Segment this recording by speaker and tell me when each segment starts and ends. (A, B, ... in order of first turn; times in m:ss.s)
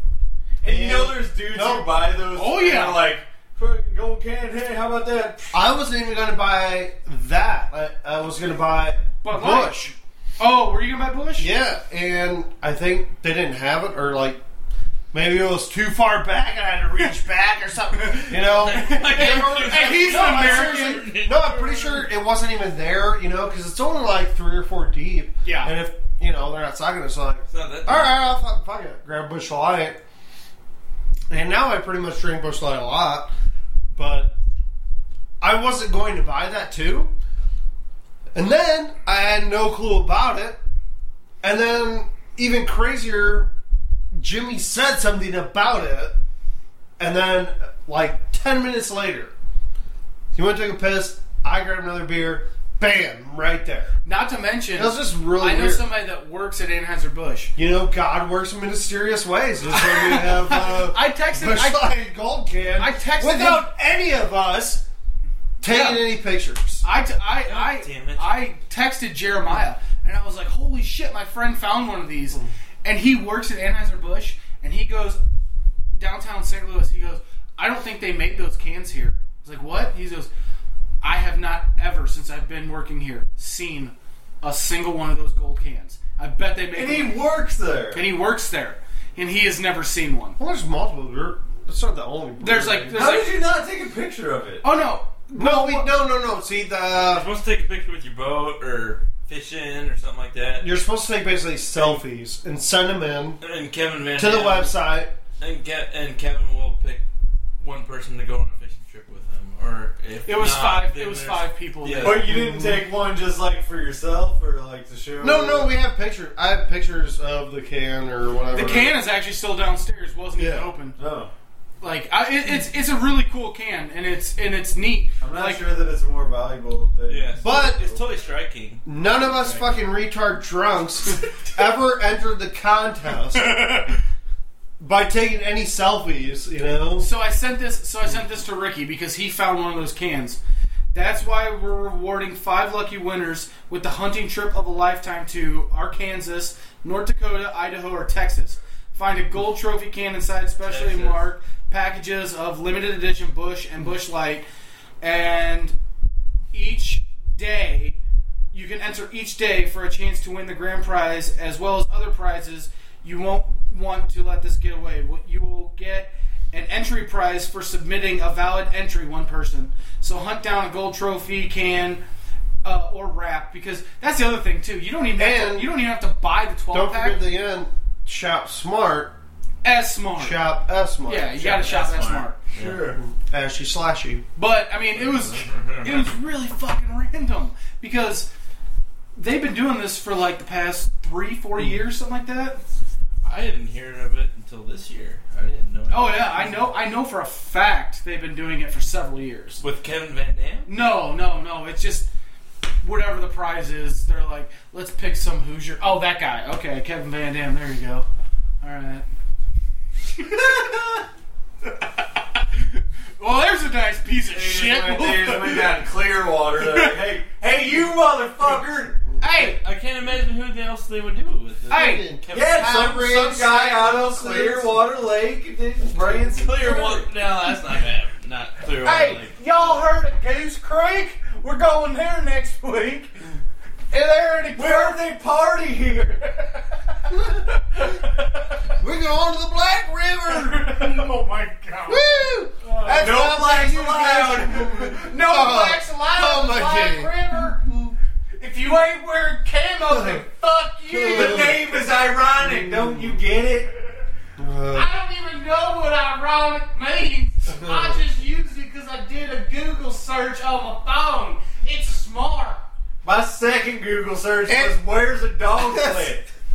0:00.6-0:01.9 A
0:00.6-0:05.5 B
0:02.3-0:03.0 C
0:05.5-0:09.9 A
0:09.2-0:11.5 C
0:11.4-0:14.4 A
0:15.1-0:30.0 A
0:17.9-0:21.1 C
0:18.5-0:22.0 D
0:25.4-0:25.7 C
0:27.5-0:28.2 D
0:31.3-0:33.3 A
0:33.9-0:34.4 A
0:35.4-0:37.1 A
0:38.3-0:40.6 A
0:41.4-0:43.5 A
0:44.1-0:46.2 A
0:47.0-0:49.3 A
0:50.3-0:54.0 A
0:54.0-0:57.5 C
0:54.7-0:55.9 A
0:57.6-1:04.9 A
0:59.7-1:01.8 C
1:02.8-1:03.6 C
1:05.6-1:06.8 A
1:05.6-1:06.0 C
1:06.8-1:15.2 C
1:07.4-1:08.4 D
1:16.0-1:20.3 C
1:21.0-1:27.2 C
1:26.7-1:28.0 B
1:27.9-1:30.4 C
1:30.4-1:33.1 A
1:32.4-1:33.4 C
1:32.9-1:34.6 B
1:34.6-1:36.0 C
1:35.3-1:37.3 A
1:37.0-1:40.7 D
1:40.6-1:43.4 A
1:43.4-1:44.8 D
1:44.2-1:45.1 A
1:45.4-1:47.0 D
1:47.6-1:52.2 D
1:50.3-1:52.6 C
1:52.0-1:55.7 B
1:52.3-1:52.8 A
1:55.2-1:59.0 A
1:58.5-2:01.0 C
2:00.4-2:00.7 A
2:01.0-2:01.3 B
2:01.8-2:05.6 C
2:05.2-2:08.1 B
2:07.1-2:09.7 D
2:07.4-2:07.8 A
2:08.9-2:13.6 A
2:13.4-2:14.0 C
2:14.8-2:17.1 A
2:17.0-2:20.4 C
2:20.9-2:34.5 C
2:30.6-2:31.2 D
2:35.0-2:35.8 C
2:36.5-2:38.0 C
2:38.5-2:52.0 C
2:52.6-2:57.2 C
2:55.2-2:55.7 A
2:56.7-2:59.2 A
2:59.6-3:00.5 C
3:00.2-3:01.4 A
3:01.0-3:02.4 C
3:01.4-3:03.0 D
3:02.6-3:03.0 B
3:03.0-3:04.2 A
3:04.4-3:08.3 C
3:04.9-3:06.2 D
3:09.2-3:12.6 C
3:13.2-3:16.7 D
3:15.9-3:19.6 C
3:19.6-3:20.7 D
3:20.7-3:22.1 C
3:22.8-3:28.1 C
3:28.6-3:29.0 C
3:32.8-3:35.8 C
3:34.3-3:39.0 B
3:36.6-3:37.0 C
3:39.2-3:39.6 C
3:39.3-3:42.9 D
3:41.7-3:42.1 C
3:41.7-3:44.8 A
3:42.3-3:46.9 B
3:46.3-3:49.4 D
3:48.8-3:53.1 C
3:53.9-3:55.0 C
3:54.5-3:56.2 B
3:56.4-3:58.0 C
3:58.8-4:01.1 A
4:00.3-4:03.4 C
4:01.9-4:07.5 A
4:02.9-4:04.9 B
4:04.8-4:11.6 C
4:09.8-4:10.3 A
4:10.9-4:11.6 A
4:11.0-4:13.7 B
4:12.4-4:13.2 A
4:14.4-4:14.9 A
4:14.7-4:22.6 C
4:17.5-4:18.0 A
4:23.0-4:26.2 B
4:24.5-4:24.8 A
4:25.5-4:26.2 A